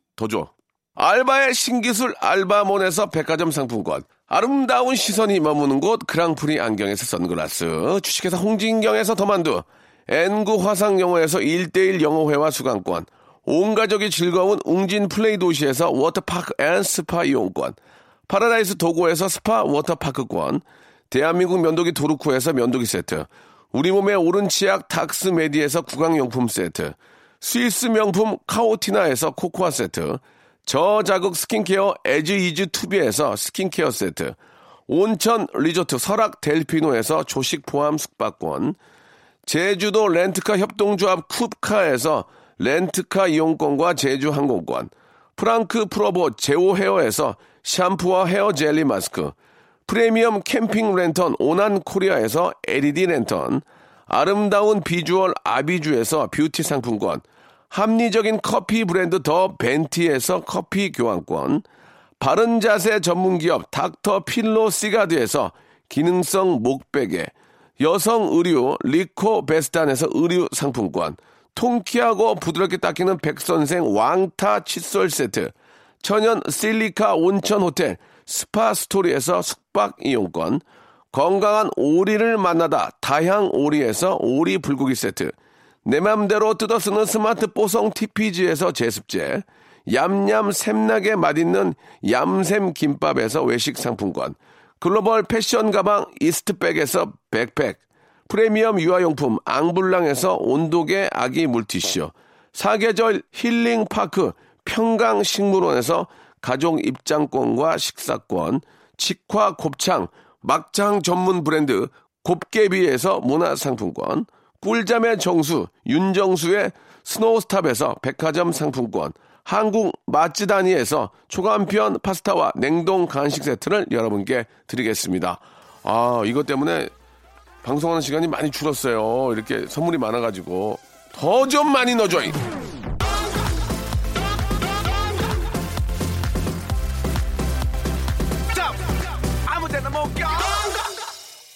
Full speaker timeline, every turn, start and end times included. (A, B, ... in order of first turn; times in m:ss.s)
0:00.2-0:34.4 A
0:34.9-0:38.8 A
0:39.5-0:49.4 A
0:49.9-1:01.6 A
1:02.2-2:06.9 A
2:07.6-2:12.4 A
2:19.5-2:20.6 A